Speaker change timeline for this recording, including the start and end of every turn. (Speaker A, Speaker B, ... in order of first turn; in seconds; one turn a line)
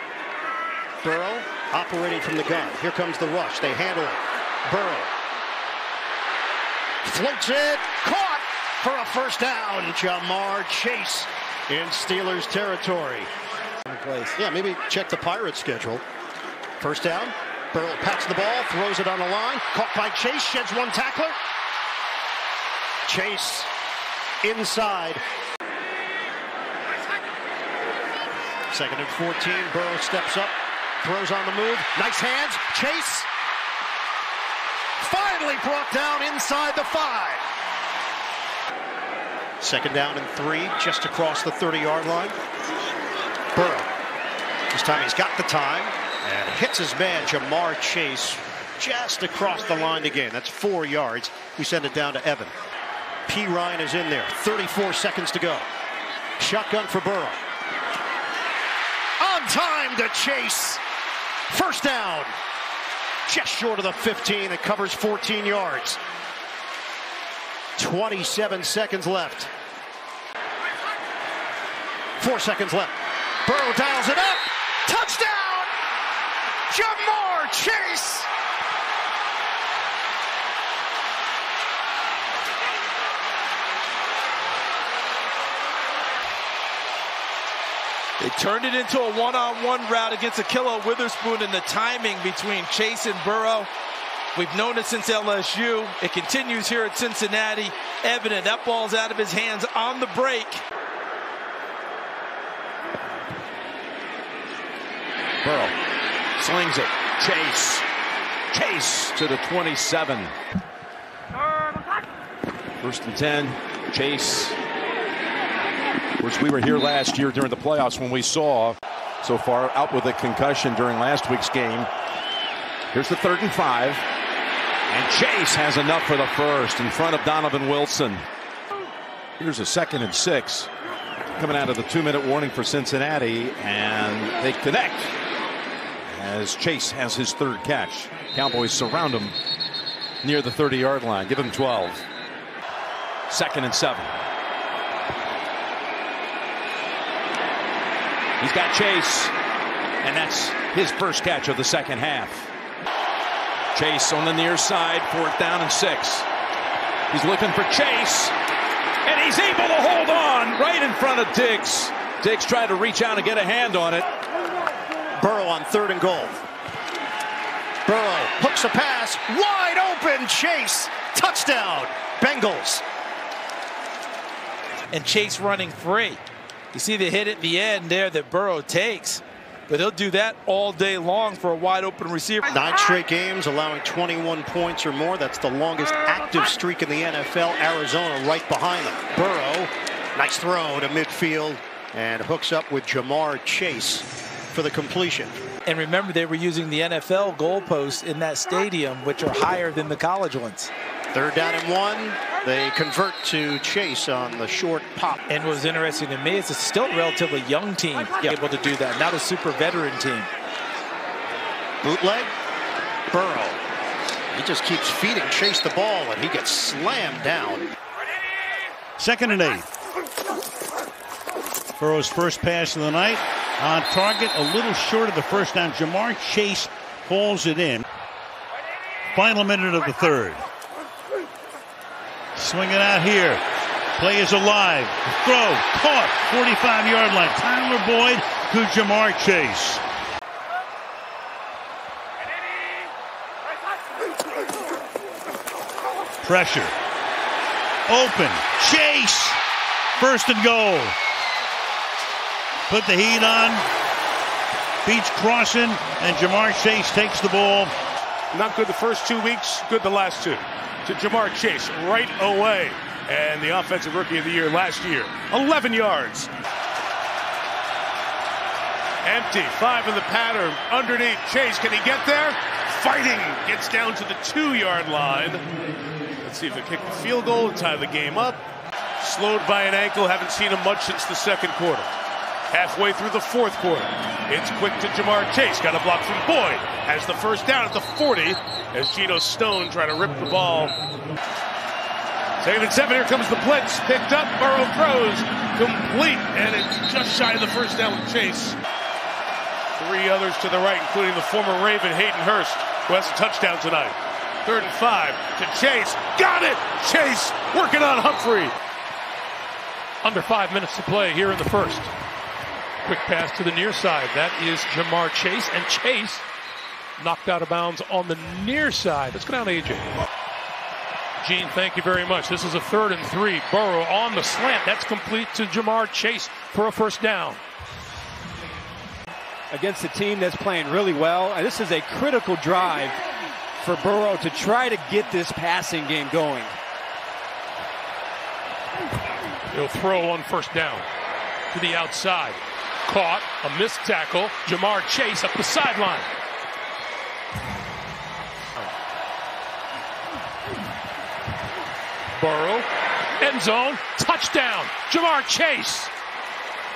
Speaker A: 1.0-5.1
Speaker A: 7.0-13.3
Speaker B: 13.9-14.4
Speaker A: 14.3-16.0
Speaker A: 16.8-21.4
Speaker A: 23.1-23.7
Speaker A: 24.4-25.2
Speaker A: 28.7-33.3
Speaker A: 35.0-37.4
Speaker A: 39.6-42.4
Speaker A: 43.5-43.9
Speaker A: 44.7-52.5
Speaker A: 53.3-55.7
Speaker A: 56.4-57.4
Speaker A: 59.2-60.8
Speaker A: 61.5-62.3
Speaker A: 63.3-66.0
Speaker A: 67.8-69.5
Speaker A: 72.2-75.7
Speaker A: 76.7-78.3
Speaker B: 88.2-93.7
Speaker B: 94.3-100.6
Speaker C: 105.4-105.7
Speaker C: 106.4-107.8
Speaker C: 108.5-110.3
Speaker C: 112.8-114.6
Speaker C: 116.2-121.9
Speaker C: 122.9-124.0
Speaker C: 124.9-128.3
Speaker C: 129.4-130.7
Speaker C: 131.3-135.1
Speaker C: 136.1-139.4
Speaker C: 140.2-142.1
Speaker C: 143.3-144.1
Speaker C: 148.4-149.3
Speaker C: 150.0-152.5
Speaker C: 153.7-156.3
Speaker C: 157.1-158.3
Speaker C: 159.0-164.1
Speaker A: 165.2-166.4
Speaker A: 167.9-172.8
Speaker B: 174.9-176.2
Speaker B: 176.7-182.5
Speaker A: 182.5-195.4
Speaker B: 195.7-200.7
Speaker A: 201.1-205.2
Speaker B: 205.3-210.3
Speaker A: 211.8-212.3
Speaker A: 213.1-213.6
Speaker A: 214.3-217.7
Speaker D: 219.0-219.7
Speaker D: 221.8-227.8
Speaker D: 229.1-230.4
Speaker D: 232.4-233.4
Speaker D: 234.0-239.8
Speaker D: 246.2-246.7
Speaker D: 247.9-249.4
Speaker D: 250.0-250.9
Speaker D: 252.7-253.7
Speaker D: 254.9-257.7
Speaker E: 258.3-266.3
Speaker E: 269.1-275.4
Speaker E: 276.2-278.4
Speaker E: 279.0-281.9
Speaker E: 282.5-290.8
Speaker E: 292.4-298.6
Speaker E: 299.8-303.9
Speaker E: 304.5-308.5
Speaker F: 310.0-311.9
Speaker F: 312.8-316.2
Speaker F: 317.0-319.9
Speaker F: 321.2-327.4
Speaker G: 329.5-333.0
Speaker G: 333.6-336.6
Speaker F: 339.5-340.9
Speaker F: 341.5-346.1
Speaker F: 352.2-352.7
Speaker F: 353.2-355.9